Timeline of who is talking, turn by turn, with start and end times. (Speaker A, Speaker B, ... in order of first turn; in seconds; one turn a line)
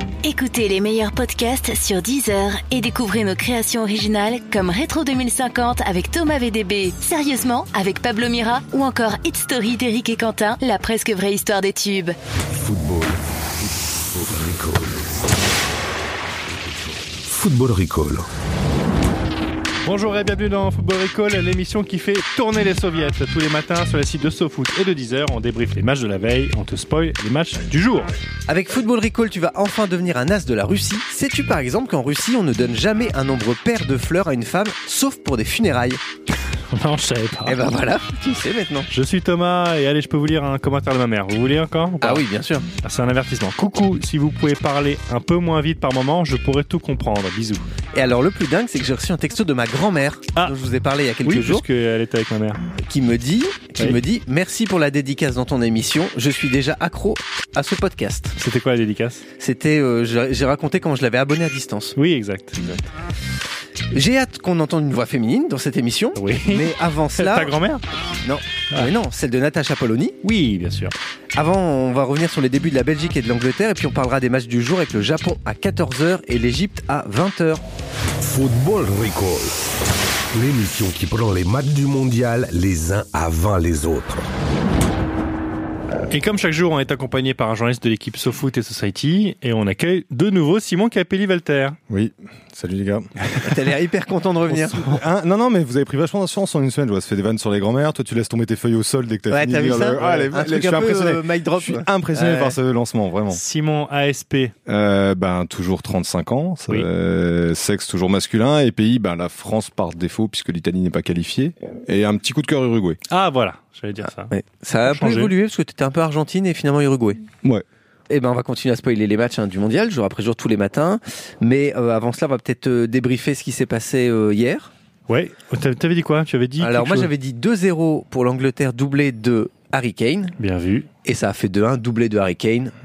Speaker A: 0.2-12.2
Speaker B: 12.5-15.1
Speaker B: 17.1-18.2
Speaker C: 19.8-28.1
Speaker D: 28.5-36.0
Speaker C: 36.7-37.6
Speaker D: 37.5-38.9
Speaker C: 38.9-42.2
Speaker D: 42.0-42.7
Speaker C: 42.8-47.7
Speaker D: 47.9-51.6
Speaker C: 51.2-52.6
Speaker D: 52.8-58.4
Speaker C: 58.4-59.2
Speaker D: 59.4-62.0
Speaker C: 62.0-62.8
Speaker D: 63.9-67.5
Speaker C: 66.1-67.8
Speaker D: 68.2-70.2
Speaker C: 70.2-70.9
Speaker D: 71.3-77.6
Speaker B: 78.2-79.6
Speaker B: 80.3-84.2
Speaker C: 86.1-91.8
Speaker E: 91.9-93.1
Speaker D: 93.4-94.8
Speaker E: 94.5-103.4
Speaker D: 99.3-102.6
Speaker C: 103.3-104.5
Speaker E: 104.7-113.0
Speaker C: 113.1-115.3
Speaker D: 114.3-117.2
Speaker D: 118.1-124.7
Speaker C: 125.1-127.1
Speaker D: 126.6-130.4
Speaker C: 130.4-130.9
Speaker D: 131.0-132.7